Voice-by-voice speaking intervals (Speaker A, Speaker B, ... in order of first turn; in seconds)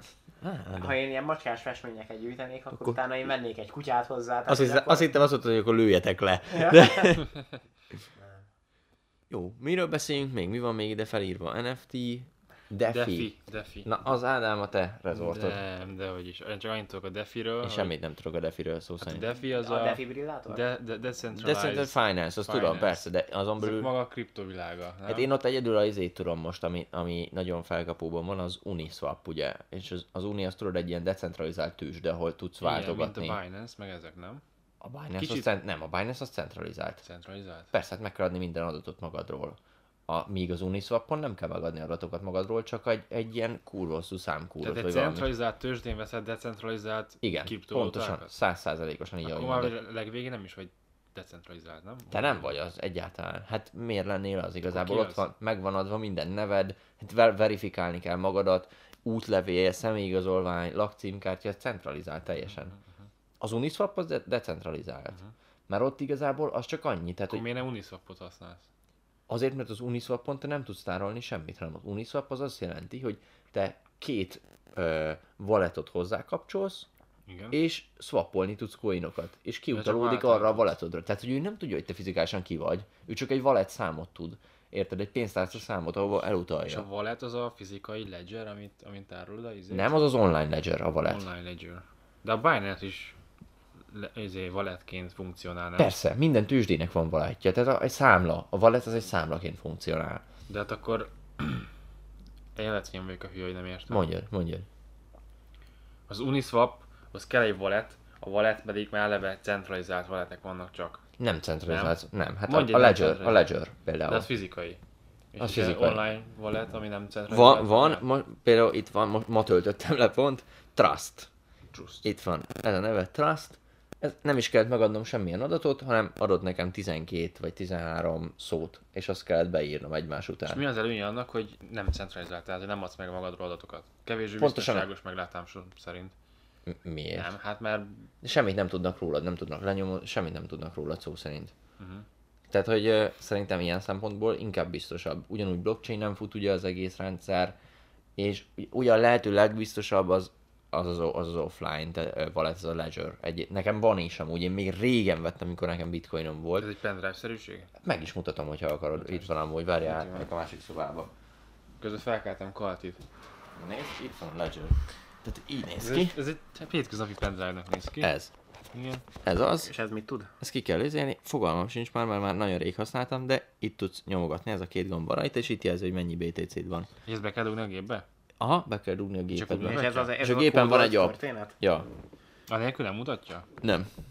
Speaker A: 0.4-1.0, 4.5-7.3, 9.3-13.3, 13.8-15.6, 17.6-19.3, 21.4-23.9, 25.1-33.4, 34.8-37.0, 37.7-45.3, 47.2-49.8, 52.1-62.8, 63.4-67.4, 69.3-76.9, 77.5-86.9, 89.7-91.2, 95.8-100.2, 103.9-104.7, 111.2-114.3, 115.4-116.0, 117.3-121.3, 122.0-130.6, 134.4-134.9, 136.7-137.3, 138.2-141.5, 142.5-147.6, 148.2-156.7, 157.8-161.1, 163.6-166.2, 168.0-168.3, 169.2-169.7, 170.4-176.9, 178.4-181.9, 183.6-183.9
Speaker B: 0.8-5.1, 6.5-7.2, 8.2-8.4, 19.6-20.6, 169.6-170.3, 179.6-181.6
Speaker C: 12.9-13.9, 15.1-17.9, 19.0-23.0, 23.6-25.3, 32.6-34.4, 35.2-35.5, 37.0-37.7, 44.6-48.3, 49.2-52.5, 54.7-55.3, 67.3-68.7, 77.3-77.6, 79.7-80.6, 86.6-90.1, 91.0-93.2, 93.9-95.9, 100.5-101.7, 102.6-104.1, 106.1-111.0, 111.7-112.0, 112.5-113.5, 114.1-114.8, 115.3-118.0, 121.7-122.1, 130.5-136.1, 137.1-138.1, 141.8-142.1, 156.6-157.7, 159.0-159.3, 159.8-160.3, 161.8-163.0, 165.8-168.1, 168.7-169.0, 177.1-178.1, 179.3-180.1, 182.5-183.5